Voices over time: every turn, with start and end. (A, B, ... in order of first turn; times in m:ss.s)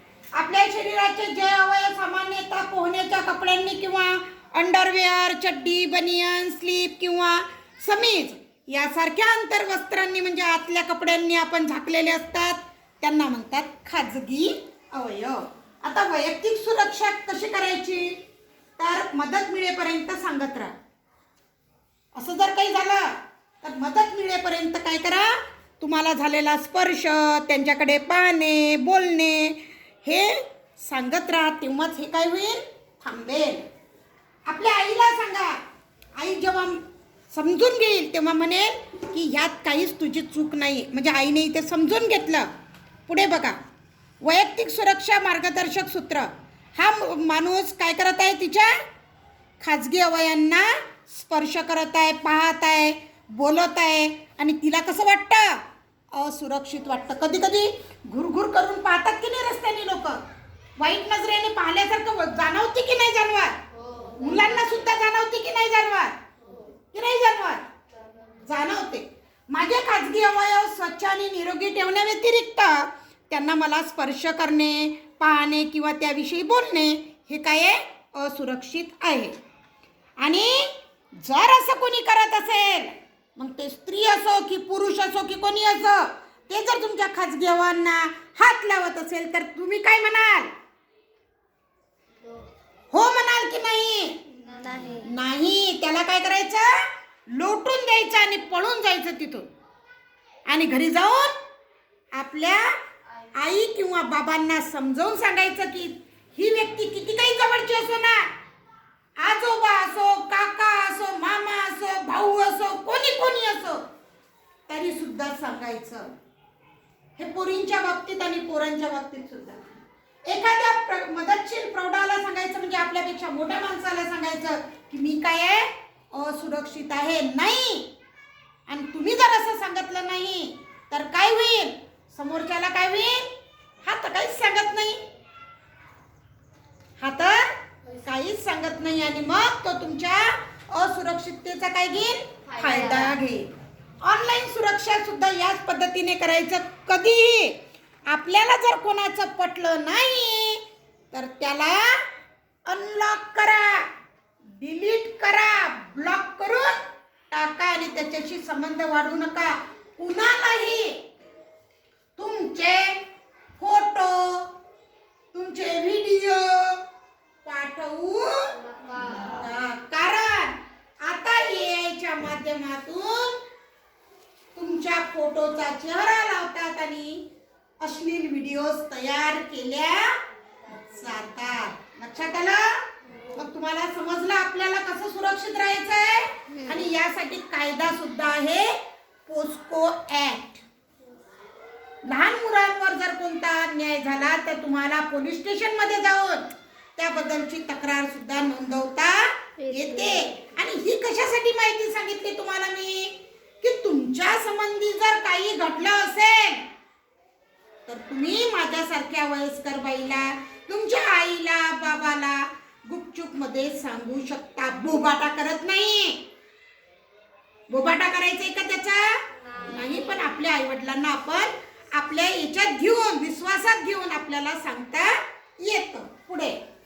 0:00.4-0:18.2 A
0:18.8-0:20.7 A
0:22.2-0:33.6 A
0:34.5-0:35.6 A
0:36.2-0:42.5 A
0:43.1-0:43.6 A
0:44.2-0:48.8 A
0:49.6-0:55.6 A
0:56.1-1:00.2 A
1:00.8-1:03.6 A
1:03.7-1:04.7 B
1:04.2-1:06.2 A
1:06.9-1:07.6 A
1:08.4-1:19.4 A
1:20.2-1:30.5 A
1:32.9-1:34.2 A
1:34.4-1:35.1 B
1:35.0-1:39.5 A
1:40.5-1:41.4 A
1:42.1-1:42.7 A
1:43.4-1:48.3 A
1:49.2-1:53.8 A
1:54.7-1:56.1 A
1:57.2-1:59.6 A
2:00.3-2:07.9 A
2:08.7-2:13.3 A
2:13.8-2:15.0 A
2:17.0-2:23.5 A
2:22.6-2:23.1 B
2:24.0-2:32.1 A
2:32.7-2:33.9 A
2:34.6-2:41.0 A
2:42.2-2:43.0 A
2:43.6-2:44.5 A
2:45.3-2:46.8 A
2:47.4-2:53.4 A
2:48.7-2:49.2 B
2:54.6-2:57.2 A
2:57.8-3:00.2 A
3:00.7-3:02.7 A
3:03.3-3:10.6 A
3:12.1-3:26.7 A
3:27.9-3:36.2 A
3:37.7-3:46.6 A